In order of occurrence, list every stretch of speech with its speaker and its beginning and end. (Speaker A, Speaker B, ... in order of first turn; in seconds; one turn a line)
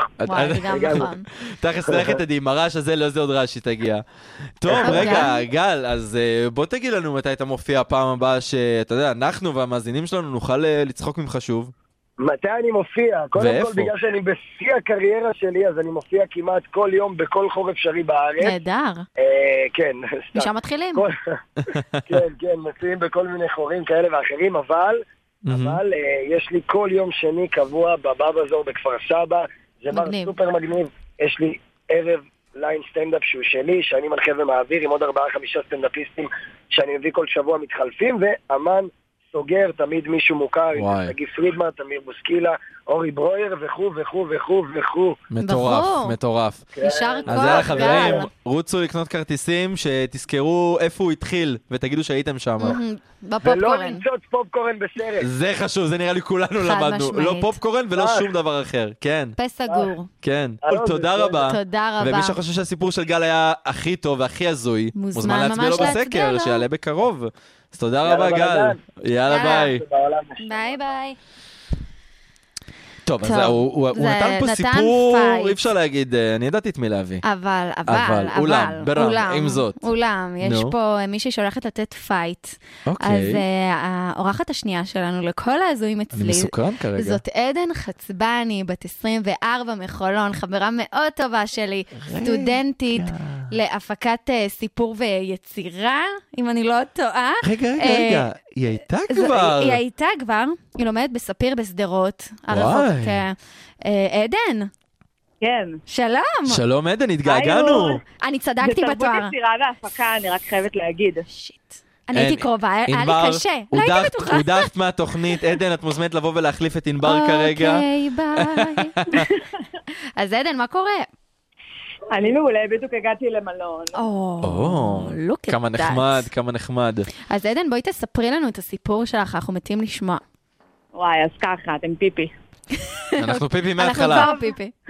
Speaker A: 0.2-4.0
Speaker B: 0.2-1.2
Speaker C: 0.6-1.1
Speaker C: 1.9-2.1
Speaker A: 4.6-11.7
Speaker C: 4.7-5.3
Speaker B: 4.8-5.4
Speaker C: 12.2-18.6
Speaker A: 13.3-13.9
Speaker B: 18.4-19.1
Speaker C: 19.2-21.4
Speaker B: 20.3-21.1
Speaker A: 21.6-22.1
Speaker C: 22.1-45.2
Speaker A: 25.4-25.8
Speaker B: 29.9-30.3
Speaker A: 40.7-41.1
Speaker A: 45.3-46.6
Speaker B: 45.4-46.1
Speaker C: 46.7-48.2
Speaker B: 46.8-48.3
Speaker A: 47.3-52.8
Speaker B: 52.6-54.0
Speaker C: 53.4-55.3
Speaker A: 55.2-59.4
Speaker B: 56.6-57.6
Speaker C: 58.0-58.2
Speaker B: 59.4-60.1
Speaker A: 60.2-69.8
Speaker C: 60.6-61.5
Speaker B: 61.4-62.4
Speaker B: 64.9-66.6
Speaker C: 68.0-68.8
Speaker B: 69.3-69.7
Speaker C: 69.3-70.8
Speaker B: 70.4-71.2
Speaker A: 73.0-77.2
Speaker B: 73.2-75.7
Speaker B: 77.2-98.2
Speaker A: 77.9-79.8
Speaker A: 80.4-80.7
Speaker A: 82.9-83.4
Speaker A: 86.1-87.2
Speaker A: 91.9-93.5
Speaker A: 97.4-99.8
Speaker B: 99.1-104.7
Speaker A: 102.5-103.2
Speaker D: 105.4-105.8
Speaker B: 105.9-106.6
Speaker A: 106.5-108.0
Speaker D: 107.2-108.0
Speaker B: 108.2-109.3
Speaker D: 108.6-111.3
Speaker B: 111.3-114.7
Speaker A: 112.1-119.3
Speaker B: 117.0-119.0
Speaker D: 119.1-119.5
Speaker B: 120.2-121.1
Speaker D: 122.1-124.0
Speaker B: 123.9-126.3
Speaker A: 124.4-127.1
Speaker B: 127.3-130.2
Speaker D: 130.9-132.3
Speaker B: 132.9-134.7
Speaker A: 133.2-134.3
Speaker D: 134.2-134.5